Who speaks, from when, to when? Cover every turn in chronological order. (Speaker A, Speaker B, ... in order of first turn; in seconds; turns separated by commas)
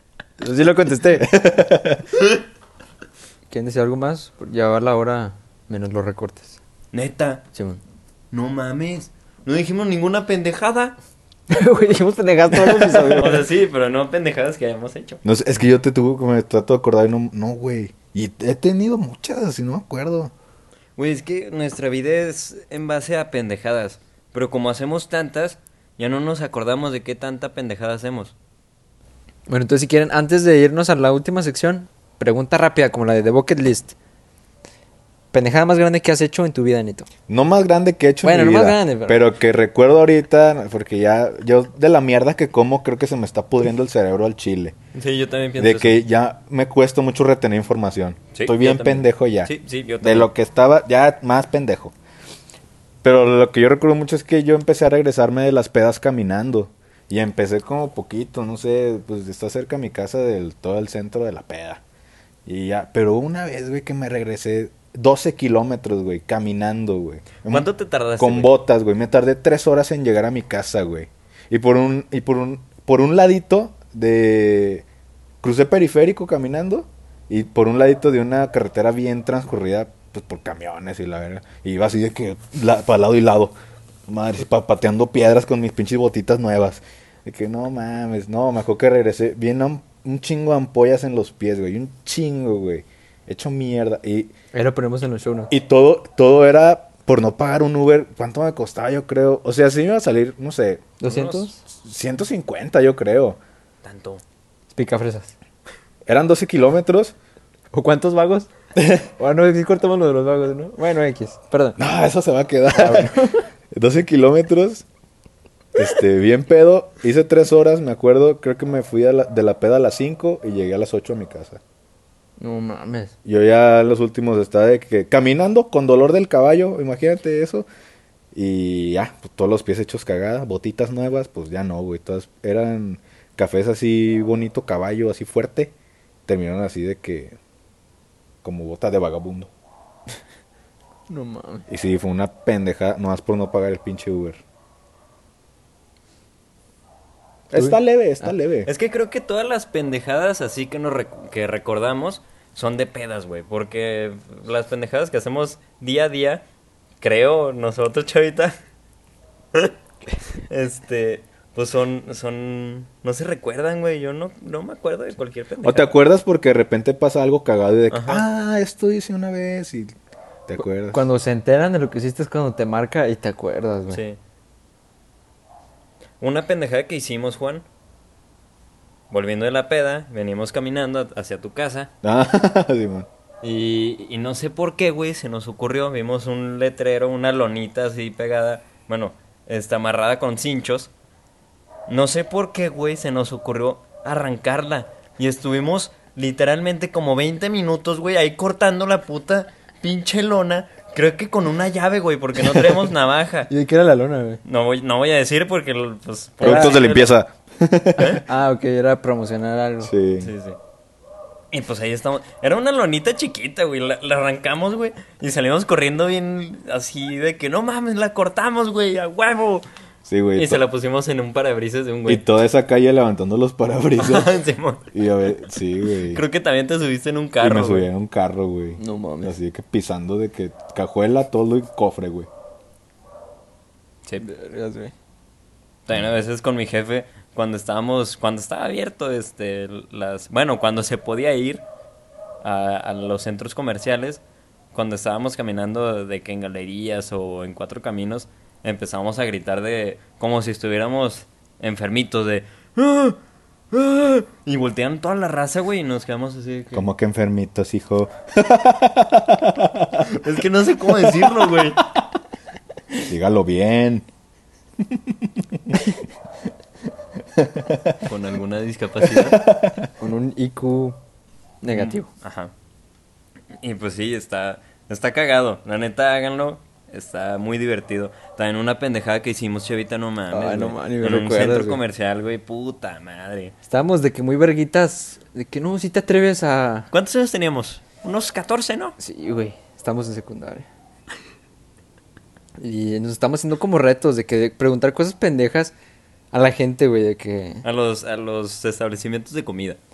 Speaker A: 0.4-1.3, Speaker B: 1.2-2.1, Speaker A: 3.5-6.6, Speaker C: 6.9-7.4, Speaker A: 7.5-7.8, Speaker C: 8.3-11.0, Speaker A: 11.5-13.5, Speaker C: 12.8-15.2, Speaker B: 15.2-20.3, Speaker C: 21.0-28.3, Speaker A: 29.5-33.9, Speaker A: 35.3-37.1, Speaker B: 37.3-44.8, Speaker A: 38.2-39.3, Speaker C: 44.9-46.0, Speaker B: 45.6-51.9, Speaker C: 48.3-50.3, Speaker B: 53.0-61.8, Speaker B: 62.5-67.7, Speaker C: 67.5-68.5, Speaker B: 68.2-74.8, Speaker B: 75.4-83.5, Speaker B: 84.1-94.3, Speaker A: 94.5-95.5, Speaker B: 95.5-100.9, Speaker A: 101.0-101.6, Speaker C: 101.0-101.5, Speaker B: 101.7-103.4, Speaker C: 103.8-104.2, Speaker A: 104.7-105.3, Speaker B: 106.1-107.2, Speaker A: 107.7-111.8, Speaker B: 111.8-114.8, Speaker A: 112.7-113.4, Speaker B: 115.8-121.6, Speaker A: 122.4-123.1, Speaker B: 123.2-127.7, Speaker B: 128.3-135.7, Speaker B: 136.3-137.4, Speaker B: 138.4-139.5, Speaker A: 141.1-141.7, Speaker B: 141.7-144.4, Speaker B: 147.5-148.7, Speaker C: 148.7-156.4, Speaker C: 157.0-158.6, Speaker C: 160.4-165.9, Speaker B: 165.6-169.9, Speaker C: 167.9-168.2, Speaker B: 170.5-171.0, Speaker A: 170.9-174.0, Speaker C: 173.9-174.2, Speaker C: 176.2-177.7, Speaker C: 179.1-181.9, Speaker B: 182.0-183.1, Speaker C: 183.4-190.9, Speaker C: 191.9-203.5, Speaker A: 203.5-204.4, Speaker C: 204.4-207.1, Speaker A: 206.4-206.8, Speaker B: 206.4-208.2, Speaker C: 208.0-208.2, Speaker A: 208.2-209.9, Speaker B: 209.8-210.3, Speaker C: 210.2-210.6, Speaker C: 211.5-219.7, Speaker B: 220.1-220.6, Speaker C: 220.3-222.2, Speaker B: 222.1-224.3, Speaker C: 224.0-224.9, Speaker B: 224.9-226.2, Speaker C: 226.1-227.9, Speaker B: 227.4-232.3, Speaker A: 228.8-229.3, Speaker A: 234.2-234.9, Speaker C: 235.9-241.7, Speaker C: 242.4-244.2, Speaker C: 244.7-253.2, Speaker C: 253.7-256.9, Speaker B: 256.7-260.1, Speaker C: 260.1-261.8, Speaker B: 261.1-261.6, Speaker B: 263.1-264.1, Speaker B: 264.8-265.8, Speaker B: 267.4-268.0, Speaker C: 268.0-269.4, Speaker B: 269.0-269.9, Speaker A: 270.0-271.0, Speaker A: 271.6-272.1, Speaker C: 271.7-272.5, Speaker C: 273.6-283.5, Speaker A: 280.3-281.8, Speaker A: 283.7-286.9, Speaker C: 286.9-289.0, Speaker A: 289.0-290.7, Speaker A: 292.6-295.7, Speaker A: 296.3-297.6, Speaker C: 297.6-299.8